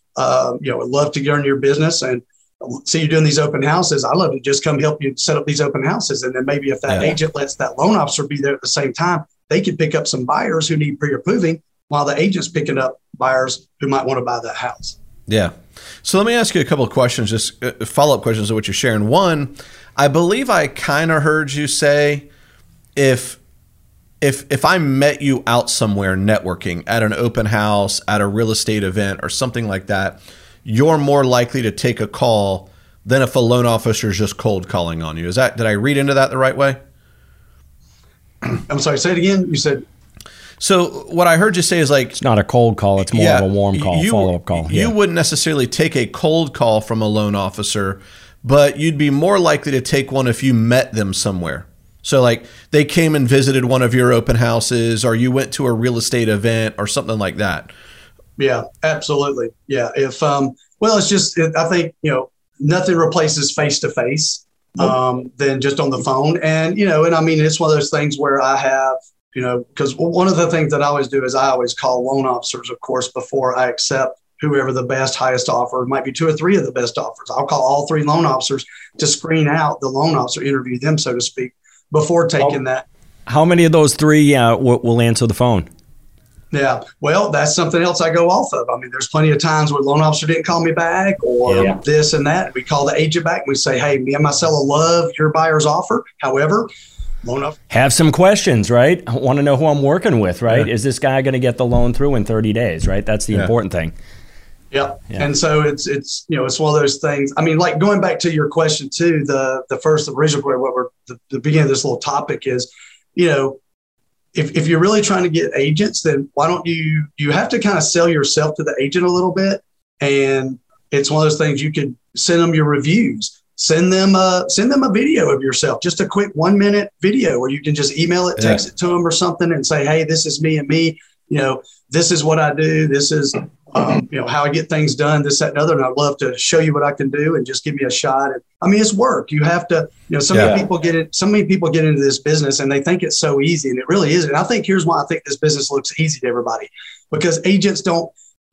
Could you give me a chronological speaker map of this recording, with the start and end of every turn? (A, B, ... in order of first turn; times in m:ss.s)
0:00.2-0:15.0 A
0:06.9-0:07.1 B
0:15.3-0:22.3 B
0:23.0-0:23.4 B
0:24.2-0:36.8 B
0:38.4-0:39.8 A
0:40.6-0:42.2 B
0:42.2-0:44.9 C
0:43.1-0:57.7 B
0:58.4-1:22.8 A
1:23.2-1:25.7 C
1:26.5-1:36.7 A
1:31.5-1:31.8 C
1:37.2-1:37.6 A
1:37.7-1:43.9 C
1:44.7-1:53.6 A
1:54.3-2:28.1 A
2:20.3-2:20.6 B